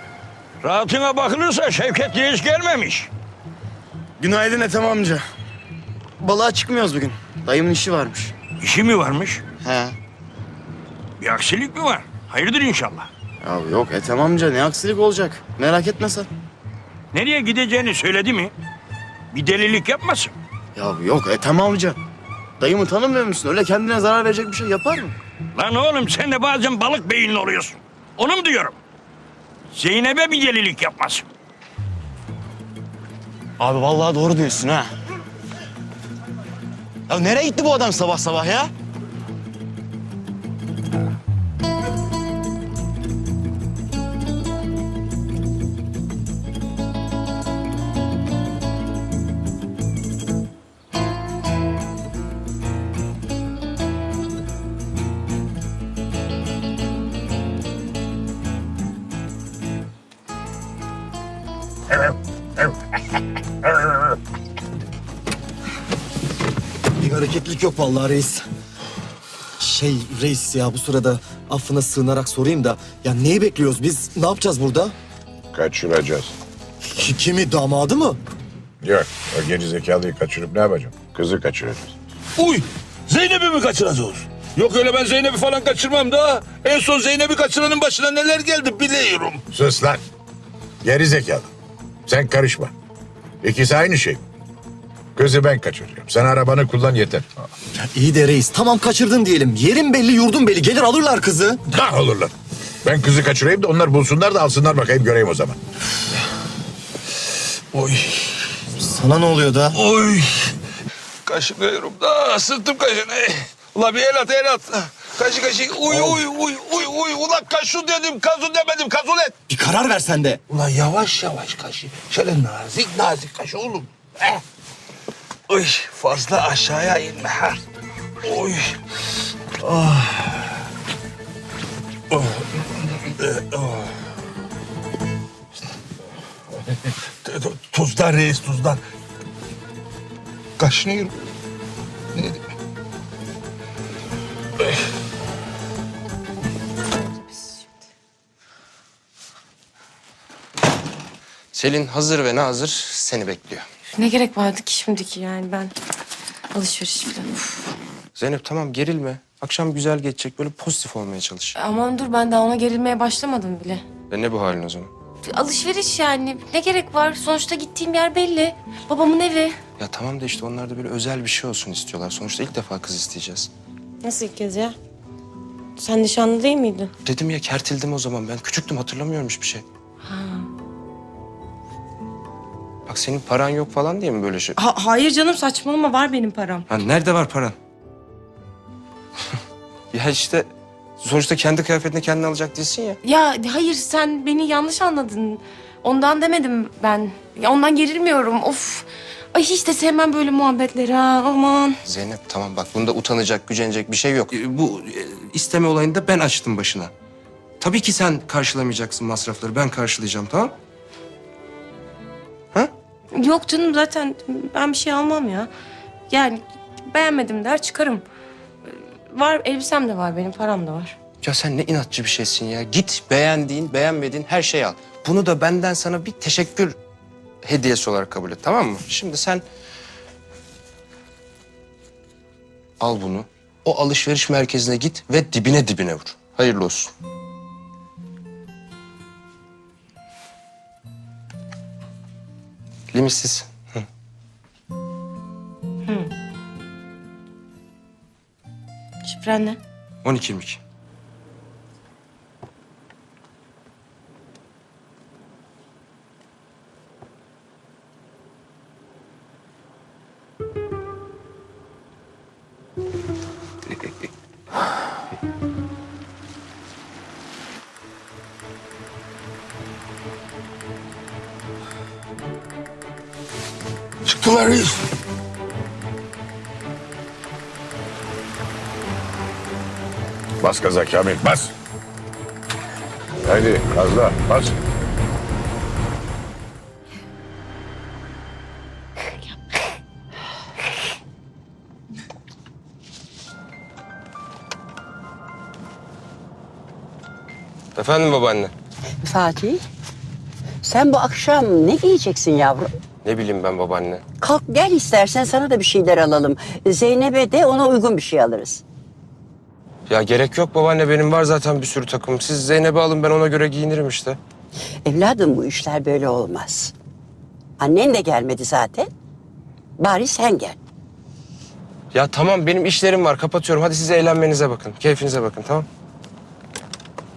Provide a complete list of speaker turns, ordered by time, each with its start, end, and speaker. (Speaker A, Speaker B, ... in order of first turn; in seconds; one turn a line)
Speaker A: 0.6-3.1
Speaker B: 4.2-5.2
Speaker B: 6.2-8.3
Speaker A: 8.6-9.4
Speaker B: 9.6-9.9
Speaker A: 11.2-13.1
Speaker B: 13.4-16.3
Speaker A: 17.1-18.5
Speaker A: 19.3-20.3
Speaker B: 20.7-22.0
Speaker B: 22.6-25.1
Speaker A: 25.5-28.7
Speaker A: 29.7-31.2
Speaker B: 33.6-34.9
Speaker B: 37.1-38.7
Speaker C: 67.0-68.4
Speaker C: 69.6-74.9
Speaker D: 75.5-76.3
Speaker C: 77.0-78.2
Speaker D: 78.8-81.9
Speaker E: 82.4-89.4
Speaker D: 89.5-90.0
Speaker D: 90.8-91.5
Speaker D: 92.1-92.7
Speaker D: 93.4-94.2
Speaker D: 95.2-97.2
Speaker C: 97.8-101.6
Speaker D: 101.7-102.3
Speaker D: 102.8-105.6
Speaker E: 107.7-108.2
Speaker C: 108.8-109.8
Speaker E: 109.7-110.5
Speaker E: 111.2-119.3
Speaker C: 115.9-116.2
Speaker C: 119.5-120.4
Speaker E: 120.5-124.4
Speaker E: 125.5-127.6
Speaker E: 128.2-128.7
Speaker E: 132.1-132.4
Speaker E: 133.0-133.9
Speaker E: 137.2-138.8
Speaker E: 140.6-141.1
Speaker F: 147.0-147.5
Speaker G: 151.5-153.6
Speaker F: 153.9-155.7
Speaker F: 156.5-157.7
Speaker G: 158.2-161.6
Speaker F: 161.5-163.8
Speaker G: 164.1-164.9
Speaker F: 165.2-169.6
Speaker G: 169.8-173.5
Speaker F: 174.0-174.7
Speaker F: 175.8-176.9
Speaker G: 177.0-179.6
Speaker F: 180.0-180.5
Speaker G: 182.8-184.6
Speaker F: 184.6-186.7
Speaker G: 186.7-187.6
Speaker G: 189.9-193.0
Speaker F: 193.0-201.8
Speaker G: 201.8-206.9
Speaker G: 207.6-210.5
Speaker F: 213.1-215.5
Speaker F: 216.1-218.0
Speaker F: 218.7-220.9
Speaker G: 221.2-226.8
Speaker G: 227.4-229.4
Speaker G: 232.8-236.9
Speaker G: 242.9-243.8
Speaker F: 245.9-246.1
Speaker F: 249.0-249.6
Speaker G: 250.0-250.6
Speaker E: 274.0-274.8
Speaker D: 280.4-281.5
Speaker D: 283.2-284.5
Speaker G: 297.7-298.5
Speaker H: 299.0-299.6
Speaker H: 300.6-302.7
Speaker G: 303.0-304.0
Speaker H: 304.2-308.6
Speaker G: 309.9-314.2
Speaker H: 314.8-316.7
Speaker H: 317.6-318.9
Speaker H: 319.8-320.6
Speaker G: 321.9-325.6